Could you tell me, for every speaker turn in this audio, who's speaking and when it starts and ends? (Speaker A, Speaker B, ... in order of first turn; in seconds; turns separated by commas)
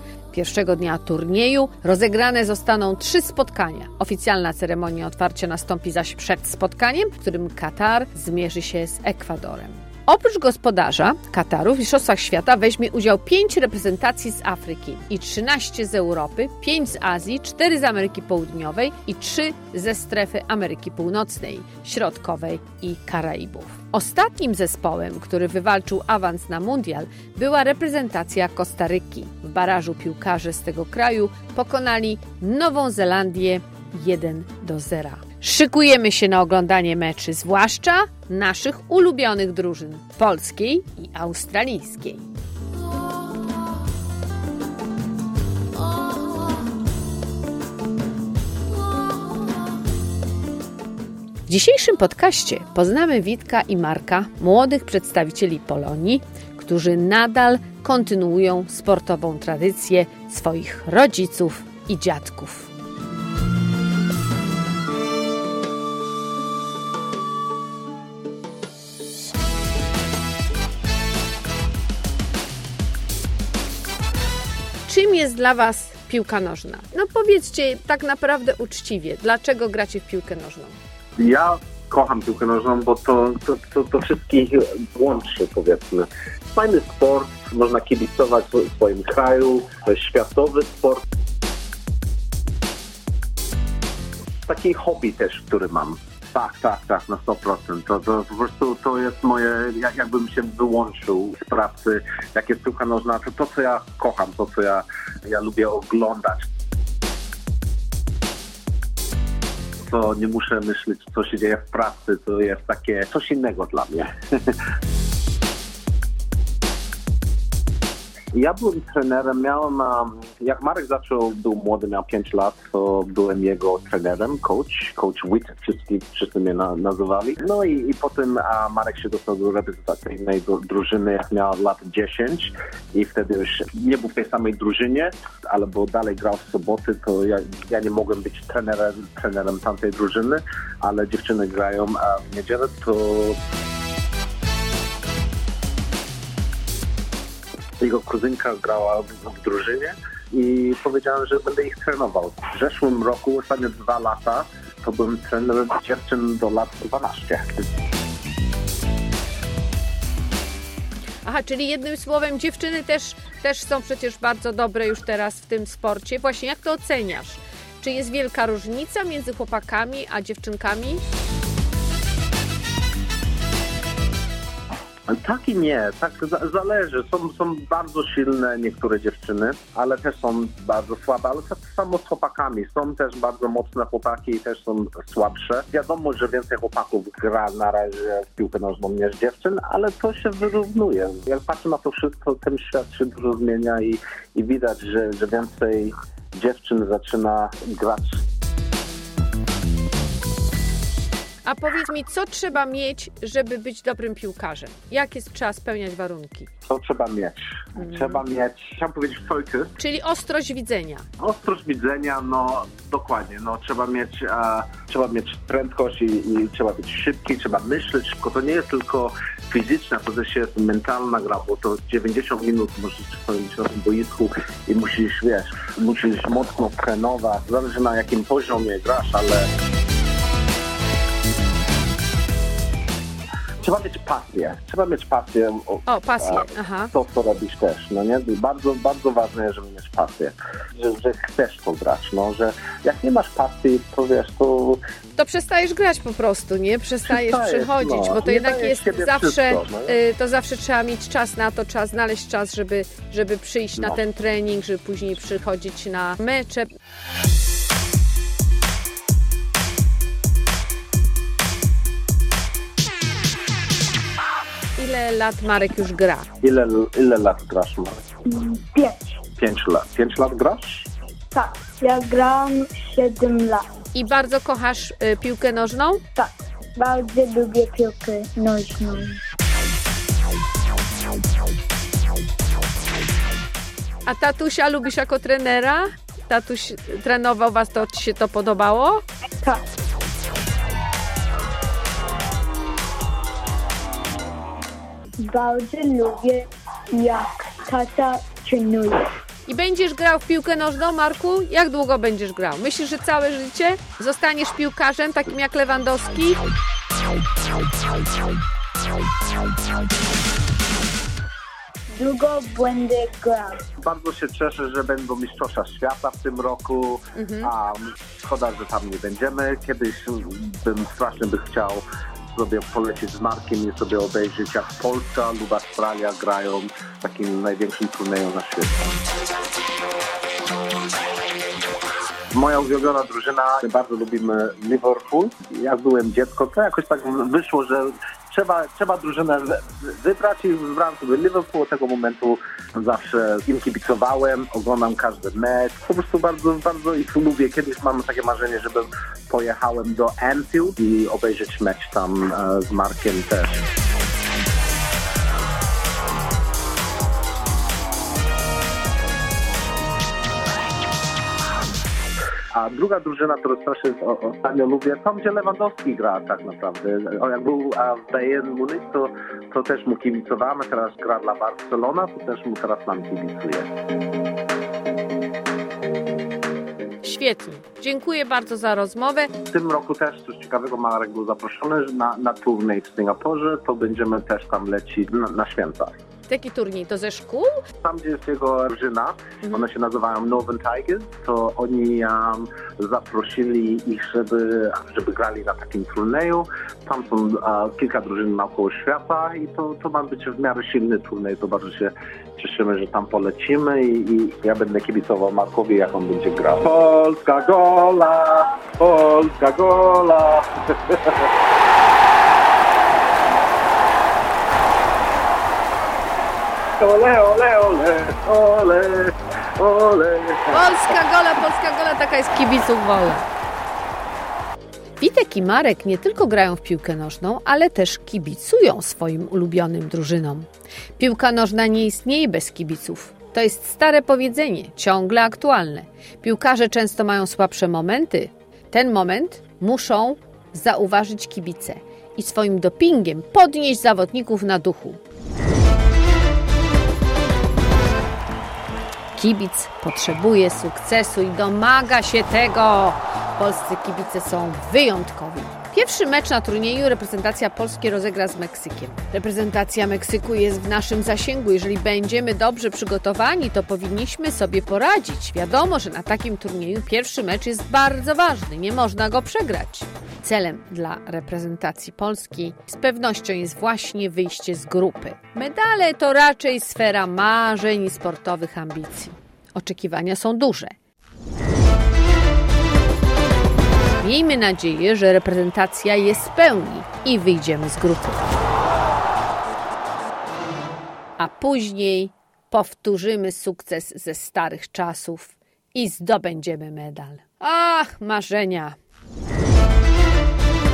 Speaker A: 0.3-42.2, Speaker A: 51.5-62.7, Speaker A: 74.8-80.8, Speaker B: 81.2-91.0, Speaker B: 94.5-106.5, Speaker B: 109.9-114.1, Speaker B: 118.3-143.4, Speaker B: 147.8-157.6, Speaker A: 161.2-171.0, Speaker B: 175.1-198.2, Speaker A: 201.4-206.5, Speaker B: 206.7-209.7, Speaker A: 209.8-211.0, Speaker B: 211.2-229.5, Speaker B: 233.6-244.8, Speaker A: 235.9-236.9, Speaker A: 245.2-256.7, Speaker B: 247.1-249.9, Speaker A: 264.8-266.3, Speaker B: 266.4-268.0, Speaker C: 268.2-269.2, Speaker B: 269.4-270.9, Speaker C: 271.3-273.6, Speaker A: 273.9-276.0, Speaker C: 276.1-279.2, Speaker A: 284.1-289.0, Speaker C: 295.2-299.0, Speaker A: 299.5-306.4, Speaker C: 311.9-313.6, Speaker B: 313.8-329.0, Speaker A: 317.1-317.5, Speaker B: 332.3-353.6, Speaker B: 362.5-373.7, Speaker A: 377.0-379.3, Speaker B: 379.5-385.9, Speaker A: 386.3-387.6, Speaker B: 387.8-411.2, Speaker B: 416.8-420.7, Speaker A: 420.5-423.3, Speaker A: 425.0-430.5, Speaker A: 431.0-445.0, Speaker A: 449.1-480.7, Speaker A: 484.0-488.2, Speaker A: 491.2-498.7